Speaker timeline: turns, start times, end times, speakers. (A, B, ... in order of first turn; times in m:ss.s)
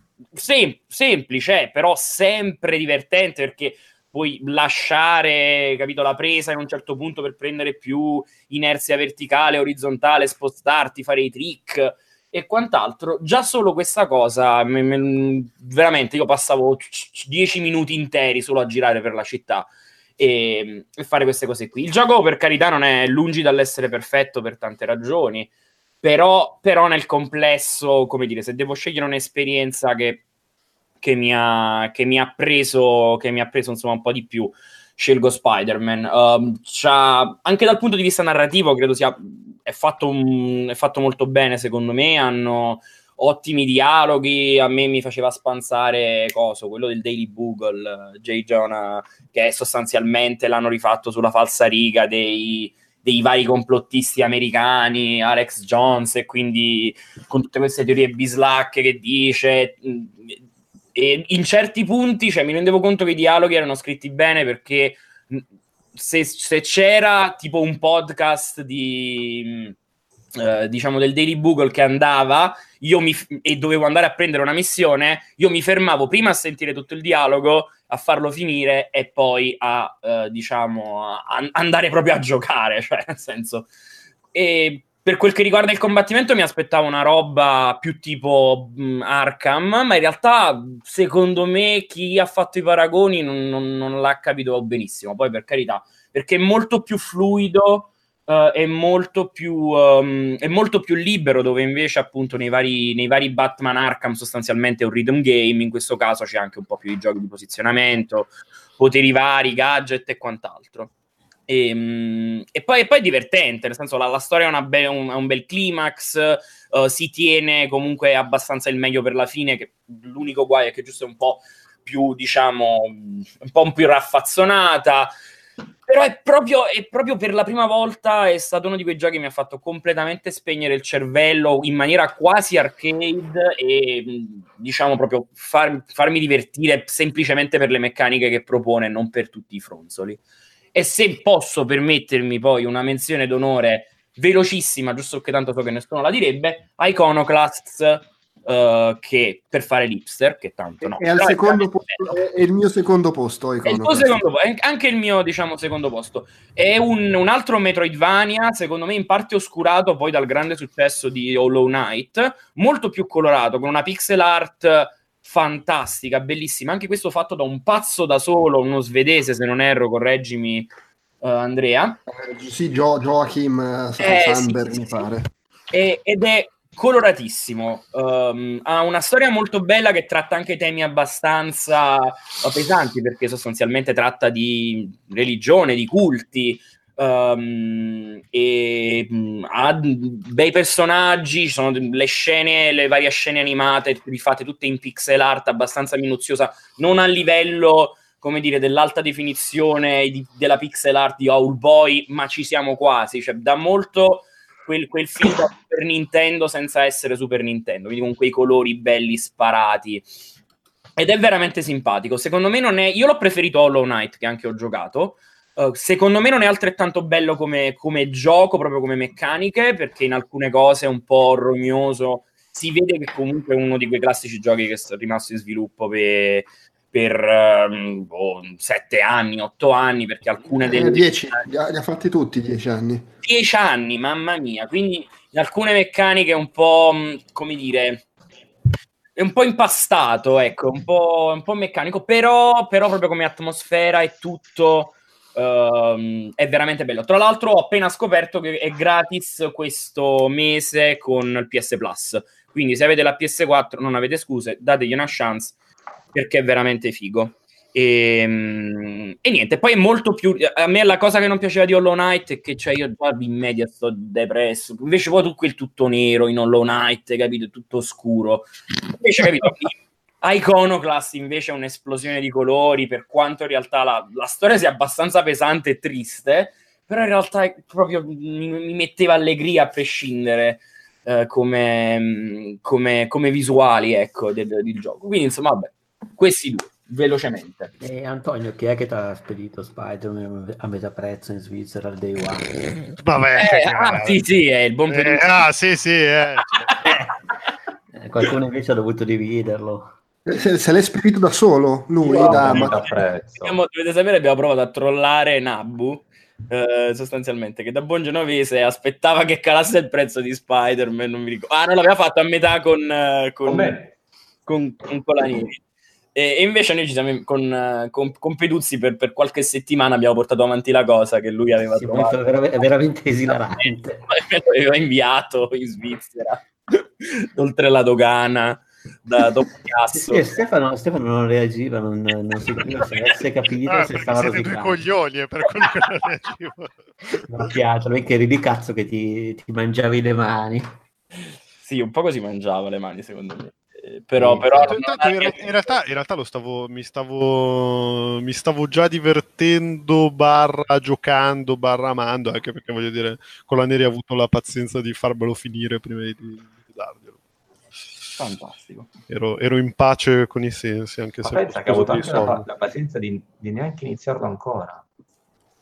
0:00.4-0:25.5 A
0:26.0-0:30.2 A
0:31.0-1:00.4 A
1:01.0-1:09.8 A
1:10.4-1:23.7 A
1:24.3-1:50.9 A
1:51.5-2:05.1 A
2:05.9-2:20.2 A
2:20.7-2:32.1 A
2:30.8-2:34.2 B
2:33.6-2:50.7 A
2:51.2-2:52.0 A
2:52.1-2:55.3 B
2:54.0-2:55.1 A
2:55.7-3:30.1 A
3:31.0-3:51.4 A
3:50.6-3:53.1 B
3:53.2-3:58.1 A
3:59.2-4:15.6 A
4:16.1-4:47.7 A
4:47.8-4:52.8 C
4:53.0-4:54.2 D
4:53.4-4:55.4 A
4:54.9-4:56.9 D
4:56.5-4:57.0 A
4:57.9-4:59.9 C
5:00.3-5:02.8 B
5:02.0-5:03.6 E
5:02.1-5:13.8 A
5:13.5-5:13.9 E
5:14.5-5:15.6 A
5:16.2-5:22.2 A
5:21.7-5:24.0 C
5:23.6-5:30.4 A
5:29.9-5:34.8 C
5:33.7-5:36.7 D
5:37.2-5:40.7 C
5:41.6-5:45.4 A
5:44.2-5:44.8 C
5:44.6-5:57.2 D
5:58.2-5:58.9 A
5:59.1-6:02.4 D
6:01.2-6:04.8 E